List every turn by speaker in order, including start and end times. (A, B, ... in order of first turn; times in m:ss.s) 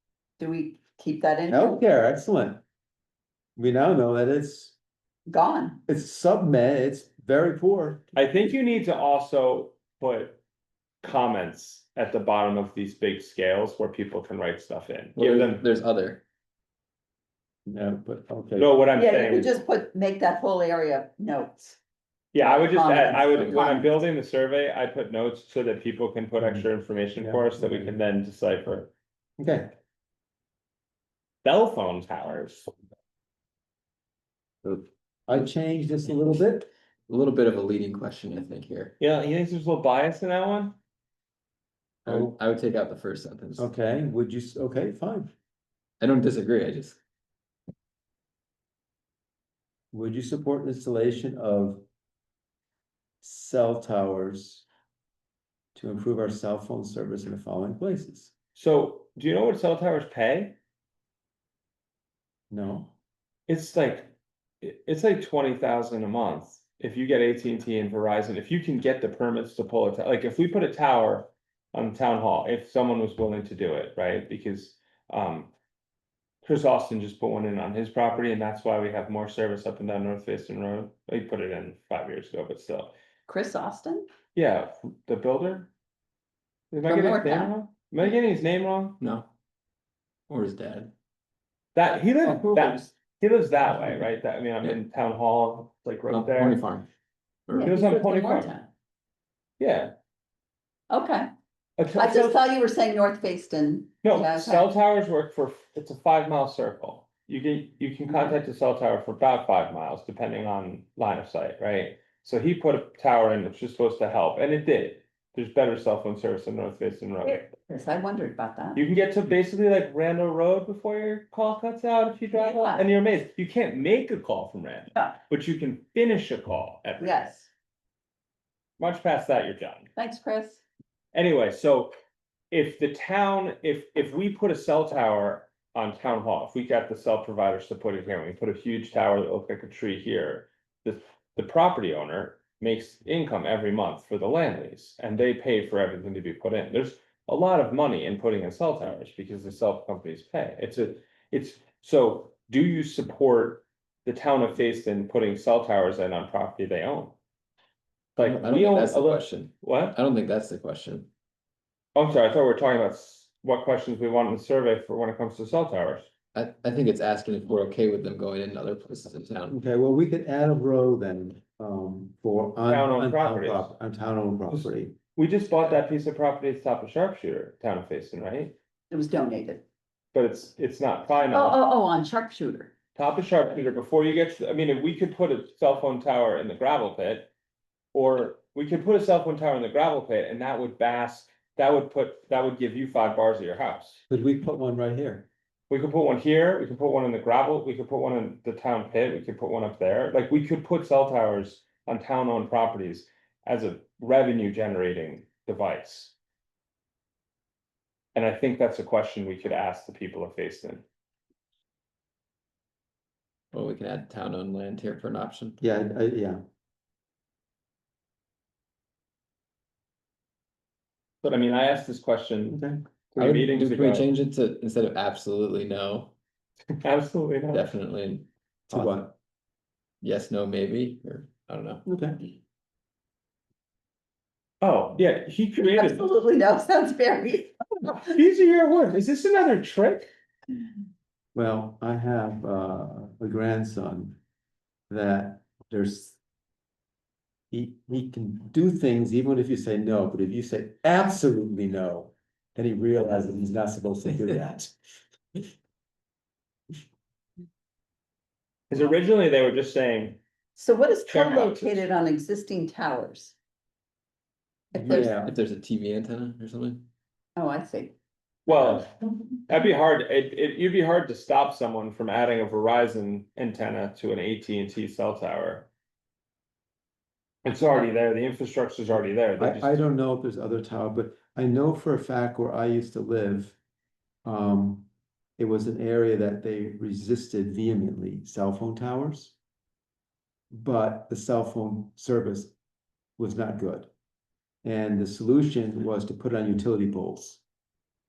0:00.4-0:01.8 A
0:01.5-0:02.6 B
0:03.6-0:04.8 B
0:05.2-0:05.8 A
0:05.9-0:08.1 B
0:08.1-0:10.4 C
0:11.0-0:15.6 C
0:15.1-0:16.2 D
0:17.6-0:18.7 B
0:18.6-0:19.6 C
0:18.9-0:21.8 A
0:22.3-0:28.9 C
0:22.4-0:23.9 A
0:23.4-0:23.8 D
0:26.4-0:27.9 B
0:29.4-0:29.7 B
0:31.4-0:32.7 C
0:34.6-0:36.7 B
0:37.1-0:38.9 D
0:39.0-0:40.8 C
0:42.0-0:43.7 D
0:42.0-0:42.4 B
0:43.6-0:45.3 B
0:46.0-0:47.0 D
0:49.9-0:51.8 B
0:53.2-0:54.6 B
0:55.7-0:58.3 B
0:58.5-1:00.6 C
1:02.5-1:02.9 B
1:03.5-1:15.5 C
1:16.4-1:22.9 C
1:23.3-1:24.0 A
1:24.3-1:25.7 C
1:26.7-1:29.0 C
1:26.8-1:28.1 A
1:29.0-1:29.3 D
1:30.3-1:30.9 D
1:31.7-1:36.6 C
1:32.2-1:32.9 B
1:36.1-1:36.9 D
1:37.4-1:37.8 D
1:37.5-1:38.7 A
1:37.6-1:38.5 C
1:39.6-1:39.9 C
1:40.9-1:41.2 A
1:41.8-1:42.4 C
1:41.9-1:44.6 A
1:44.0-1:57.5 C
1:57.2-1:58.8 A
1:58.8-2:07.3 C
2:02.3-2:02.9 A
2:07.0-2:07.5 A
2:08.8-2:09.9 C
2:10.0-2:10.6 A
2:11.1-2:11.9 C
2:12.5-2:37.2 C
2:38.2-2:40.0 C
2:38.2-2:41.1 D
2:41.9-2:46.1 C
2:46.3-2:49.6 D
2:49.5-2:55.0 B
2:52.6-2:53.7 C
2:54.5-2:58.5 C
2:58.9-2:59.6 A
3:00.1-3:01.6 C
3:01.2-3:02.7 A
3:03.0-3:07.3 C
3:07.9-3:14.0 C
3:14.1-3:15.3 B
3:15.7-3:26.1 C
3:28.1-3:30.8 C
3:33.5-3:35.6 D
3:35.6-3:36.4 B
3:41.2-3:44.1 C
3:42.5-3:42.8 B
3:43.2-3:46.1 D
3:46.8-3:47.7 C
3:47.5-3:49.1 D
3:48.7-3:49.1 B
3:50.0-3:51.8 D
3:51.8-3:52.2 B
3:54.6-3:56.2 C
3:55.6-3:58.0 A
3:57.8-4:00.1 C
4:01.3-4:04.2 B
4:04.9-4:06.2 B
4:07.5-4:14.7 B
4:18.7-4:20.2 C
4:20.6-4:23.4 A
4:21.1-4:21.8 C
4:24.7-4:25.1 A
4:24.7-4:25.4 B
4:24.9-4:26.9 D
4:27.4-4:28.0 A
4:28.5-4:28.9 C
4:28.5-4:28.8 A
4:29.5-4:35.7 C
4:37.4-4:39.8 C
4:39.4-4:43.6 B
4:44.2-4:44.9 B
4:45.4-4:49.4 B
4:50.5-4:52.5 B
4:53.2-4:53.9 B
4:54.6-4:57.4 B